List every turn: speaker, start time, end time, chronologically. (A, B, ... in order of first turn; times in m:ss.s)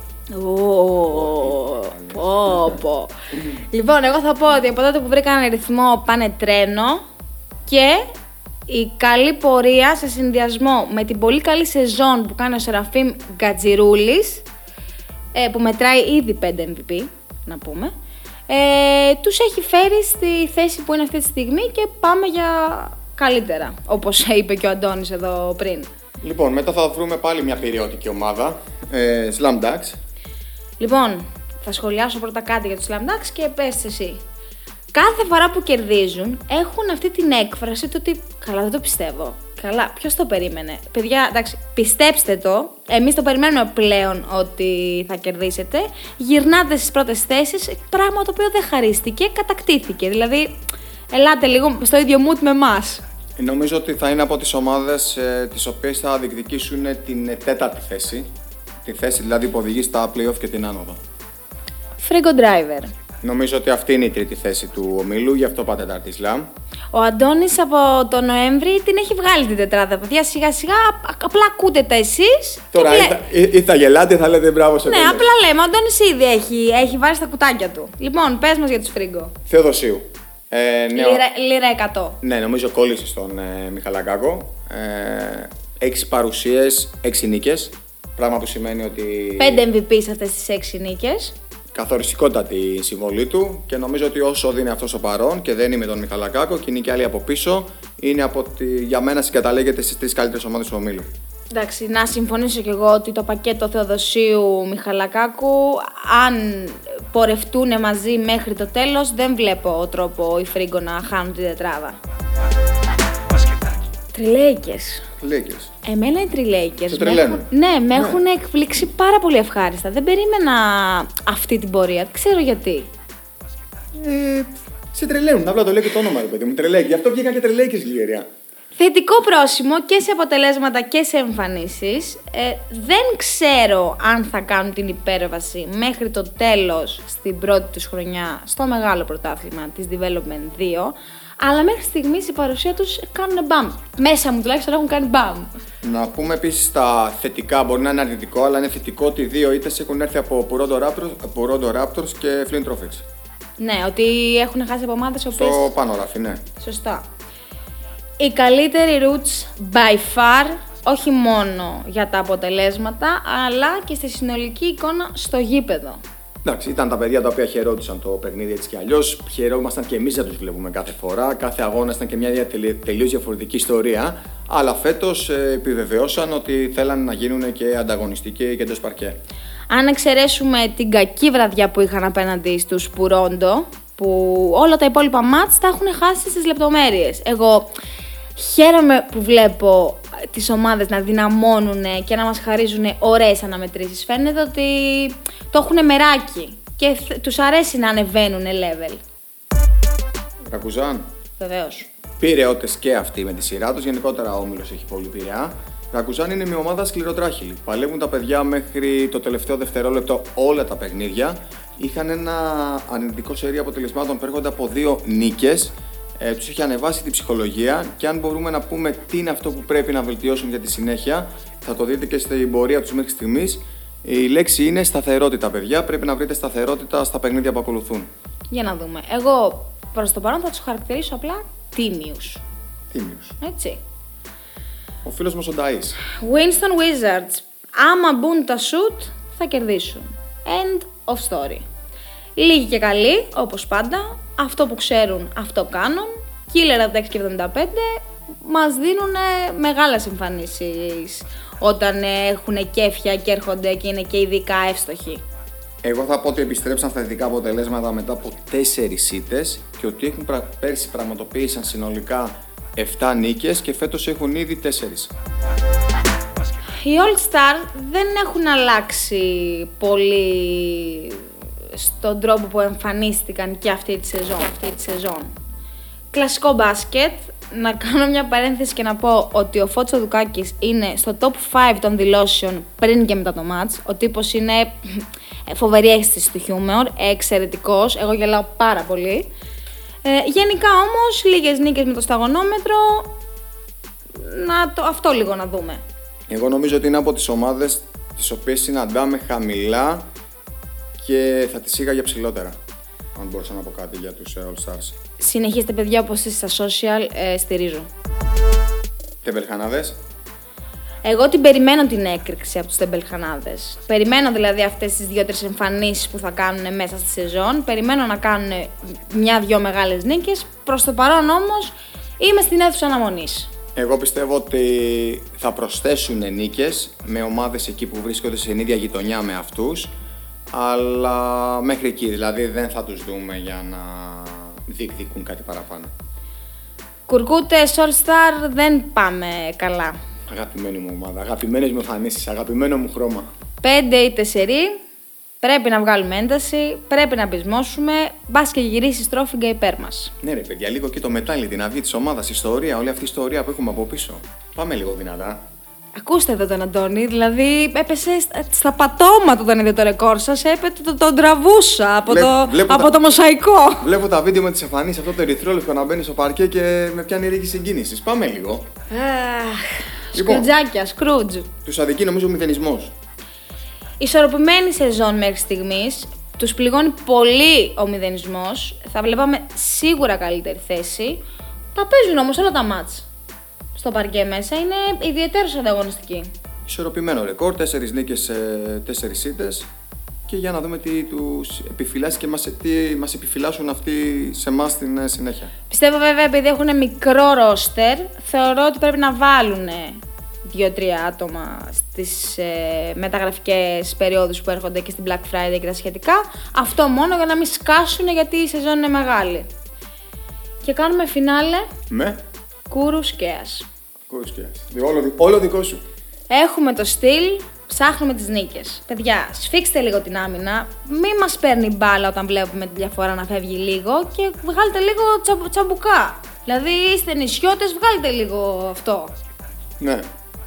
0:00.3-0:07.0 A
0:01.1-0:02.8 B
0:07.6-0:08.0 A
0:08.7-0:14.4 A
0:15.3-0:17.9 A
0:18.5-0:25.9 A
0:26.2-0:30.0 B
0:30.8-0:34.2 A
0:34.9-0:50.6 A
0:51.1-0:53.0 A
0:53.4-0:58.3 B
0:58.8-1:01.0 B
1:02.0-1:02.9 A
1:03.2-1:06.5 B
1:06.9-1:13.2 A
1:12.7-1:15.2 B
1:14.8-1:19.3 A
1:19.5-1:21.2 B
1:20.9-1:22.2 A
1:22.2-1:29.6 B
1:29.4-1:31.3 A
1:31.7-1:41.1 B
1:41.5-1:52.0 A
1:54.1-1:55.0 A
1:55.2-1:55.7 B
1:55.8-2:02.9 A
1:56.9-1:58.2 B
2:04.0-2:08.2 B
2:08.8-2:25.5 A
2:25.8-2:33.0 B
2:33.6-2:35.7 A
2:35.3-2:36.4 B
2:36.6-2:37.0 A
2:38.2-2:46.0 A
2:46.4-2:59.2 B
2:59.7-3:07.7 A
3:08.4-3:19.0 A
3:20.5-3:21.0 B
3:21.4-3:21.9 A
3:22.2-3:48.1 B
3:48.5-3:52.4 A
3:52.9-3:53.4 B
3:53.4-3:53.8 A
3:55.0-3:56.0 B
3:56.1-4:01.6 A
4:02.4-4:15.2 A
4:15.8-4:25.1 B
4:26.8-4:35.3 A
4:36.1-4:49.3 A
4:50.0-4:53.1 A
4:54.1-4:55.8 A
4:56.3-5:00.1 B
5:01.0-5:02.6 B
5:03.1-5:05.0 B
5:05.2-5:07.9 A
5:09.2-5:10.0 B
5:11.0-5:23.5 A
5:23.8-5:29.9 B
5:30.5-5:35.9 B
5:37.1-5:40.0 A
5:40.3-5:43.3 B
5:43.6-5:44.8 A
5:45.4-5:50.1 A
5:50.2-5:55.4 B
5:56.0-6:03.9 A
6:02.1-6:02.9 B
6:03.8-6:08.6 B
6:08.9-6:11.5 A
6:10.1-6:10.5 B
6:11.6-6:12.9 B
6:14.0-6:21.2 A
6:21.7-6:23.1 A
6:23.7-6:26.3 A
6:26.6-6:29.7 B
6:30.3-6:35.5 B
6:35.7-6:49.4 A
6:50.6-6:51.7 A
6:51.9-6:52.2 B
6:52.7-6:53.6 A
6:54.1-6:55.8 B
6:56.3-7:09.1 A
7:09.8-7:10.0 B